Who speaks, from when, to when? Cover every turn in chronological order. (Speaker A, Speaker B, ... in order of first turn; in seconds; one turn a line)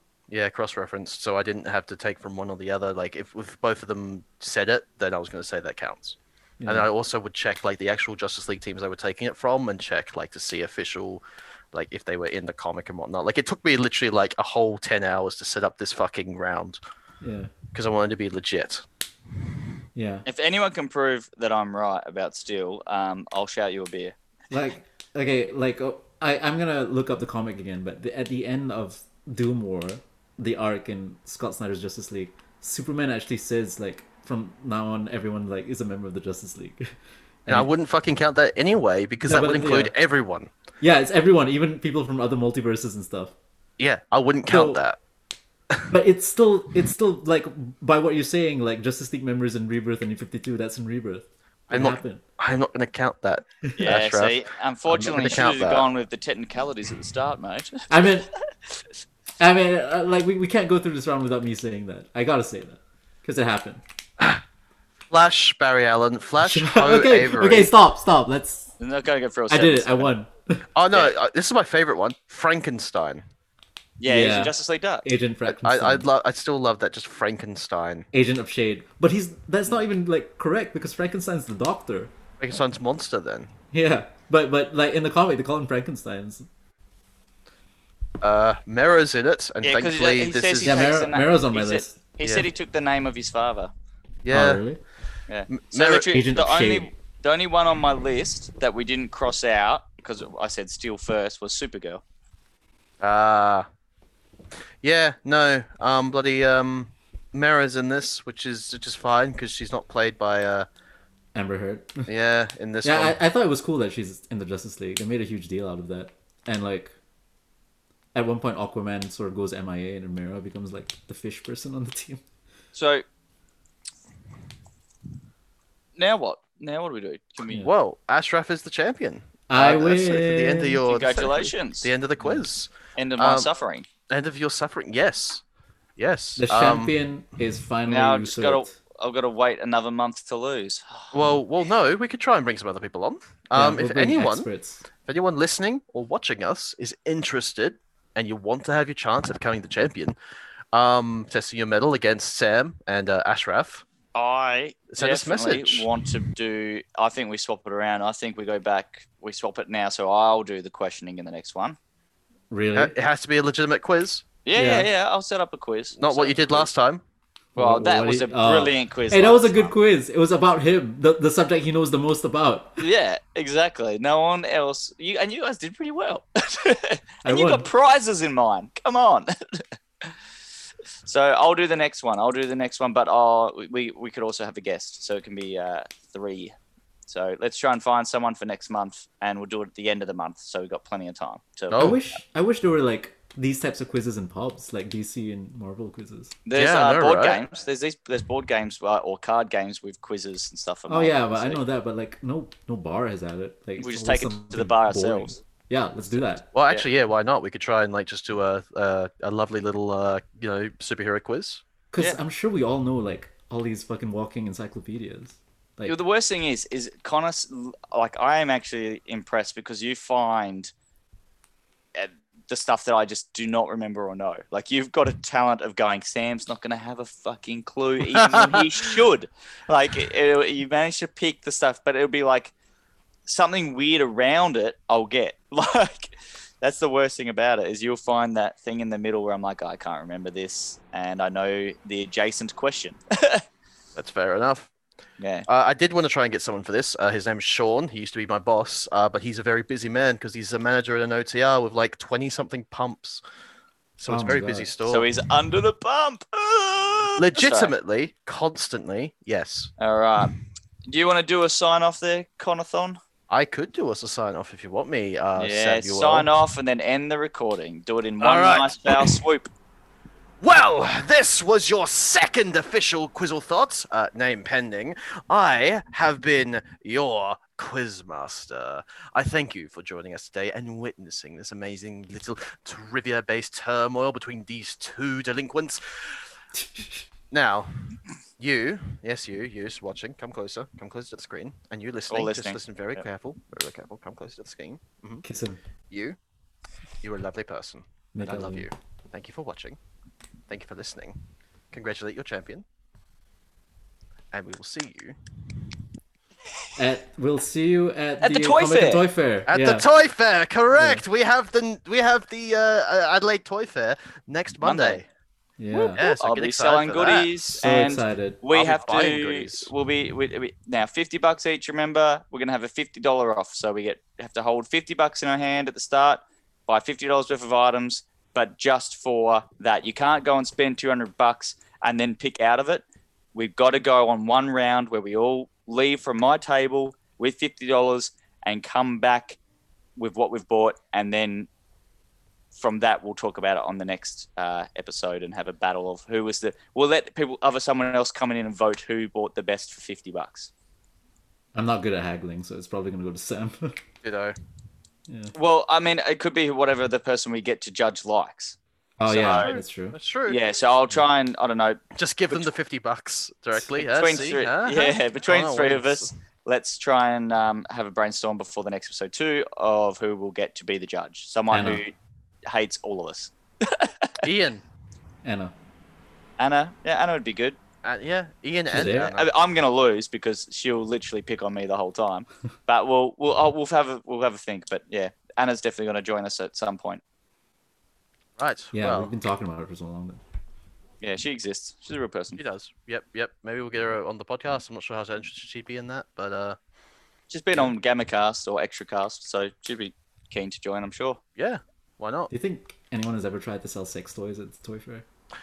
Speaker A: 0.3-16.8
Speaker B: 6.6-6.9
Speaker B: 17.2-17.5
Speaker A: 17.7-18.8
Speaker B: 19.9-20.2
Speaker C: 20.2-24.1
Speaker B: 24.5-36.9
Speaker A: 37.5-40.5
Speaker B: 39.2-39.9
Speaker B: 40.8-43.3
Speaker A: 43.8-45.0
Speaker B: 44.5-44.8
Speaker B: 45.9-52.2
Speaker A: 51.7-55.9
Speaker C: 53.8-58.3
Speaker B: 57.9-58.3
Speaker B: 59.4-63.8
Speaker A: 65.1-67.7
Speaker B: 66.4-68.7
Speaker C: 68.8-70.1
Speaker B: 69.5-70.6
Speaker A: 70.8-73.2
Speaker C: 74.0-75.0
Speaker B: 74.0-76.1
Speaker A: 75.5-78.0
Speaker B: 78.1-82.1
Speaker A: 82.4-83.5
Speaker B: 83.7-86.5
Speaker A: 88.2-90.8
Speaker C: 89.6-93.7
Speaker B: 90.6-92.0
Speaker A: 92.2-92.5
Speaker A: 94.2-94.6
Speaker B: 94.3-94.8
Speaker C: 95.3-102.0
Speaker A: 95.5-96.1
Speaker B: 96.1-96.9
Speaker A: 103.0-103.7
Speaker A: 104.8-110.7
Speaker B: 111.3-112.1
Speaker A: 112.1-113.2
Speaker B: 112.8-116.9
Speaker B: 118.1-122.2
Speaker C: 122.7-123.0
Speaker C: 126.0-127.7
Speaker A: 127.6-133.5
Speaker B: 129.5-130.8
Speaker C: 130.9-131.9
Speaker B: 132.2-132.4
Speaker C: 133.0-133.9
Speaker A: 134.1-135.4
Speaker A: 136.0-136.9
Speaker B: 136.4-138.7
Speaker C: 137.9-141.1
Speaker A: 141.1-144.5
Speaker B: 143.5-144.8
Speaker A: 145.0-150.2
Speaker A: 150.7-153.8
Speaker C: 154.1-161.8
Speaker A: 154.9-155.9
Speaker B: 162.5-162.9
Speaker A: 162.8-164.2
Speaker C: 164.4-166.7
Speaker B: 164.5-164.9
Speaker A: 166.0-167.0
Speaker C: 167.6-169.7
Speaker B: 167.6-172.8
Speaker C: 172.8-180.1
Speaker B: 177.2-177.7
Speaker C: 181.1-186.6
Speaker C: 187.1-191.9
Speaker A: 191.7-192.0
Speaker B: 191.7-196.3
Speaker C: 196.4-201.6
Speaker A: 196.5-197.4
Speaker B: 200.9-206.5
Speaker C: 203.8-205.4
Speaker A: 206.5-211.6
Speaker B: 211.9-215.9
Speaker C: 215.8-220.7
Speaker C: 221.9-232.5
Speaker A: 228.2-228.6
Speaker C: 233.2-243.4
Speaker A: 243.9-244.7
Speaker C: 245.2-245.4
Speaker A: 245.5-253.2
Speaker A: 254.0-255.1
Speaker B: 254.1-254.7
Speaker C: 254.9-257.7
Speaker A: 257.2-259.7
Speaker C: 259.8-260.4
Speaker C: 260.9-263.0
Speaker A: 263.3-266.3
Speaker C: 265.4-269.5
Speaker A: 268.2-269.2
Speaker A: 270.4-285.8
Speaker B: 286.5-287.0
Speaker A: 287.3-287.7
Speaker A: 288.4-295.2
Speaker C: 292.1-293.0
Speaker B: 295.2-295.6
Speaker A: 295.9-296.2
Speaker A: 297.0-299.8
Speaker B: 298.1-298.7
Speaker A: 300.5-301.2
Speaker A: 301.7-302.6
Speaker A: 304.3-305.2
Speaker B: 306.8-309.8
Speaker C: 308.2-309.0
Speaker A: 309.5-315.0
Speaker B: 310.8-311.0
Speaker C: 314.6-315.0
Speaker B: 315.6-316.0
Speaker C: 315.7-332.8
Speaker A: 316.0-317.4
Speaker B: 317.6-318.4
Speaker A: 318.5-319.7
Speaker C: 333.3-339.4
Speaker C: 340.0-341.5
Speaker C: 342.5-350.5
Speaker B: 351.5-353.8
Speaker A: 354.0-354.3
Speaker B: 355.1-355.3
Speaker C: 355.3-358.6
Speaker B: 359.0-359.9
Speaker C: 359.1-359.5
Speaker A: 359.1-360.4
Speaker C: 360.2-361.8
Speaker A: 361.9-366.1
Speaker C: 363.8-371.9
Speaker B: 371.5-371.8
Speaker C: 372.5-374.2
Speaker A: 374.2-374.6
Speaker B: 375.2-375.5
Speaker C: 376.4-377.6
Speaker A: 377.8-379.3
Speaker B: 378.7-379.1
Speaker C: 379.0-387.0
Speaker A: 388.4-389.1
Speaker B: 388.7-390.2
Speaker C: 391.0-392.4
Speaker A: 392.3-396.6
Speaker C: 397.3-401.2
Speaker A: 401.4-402.3
Speaker B: 402.3-405.0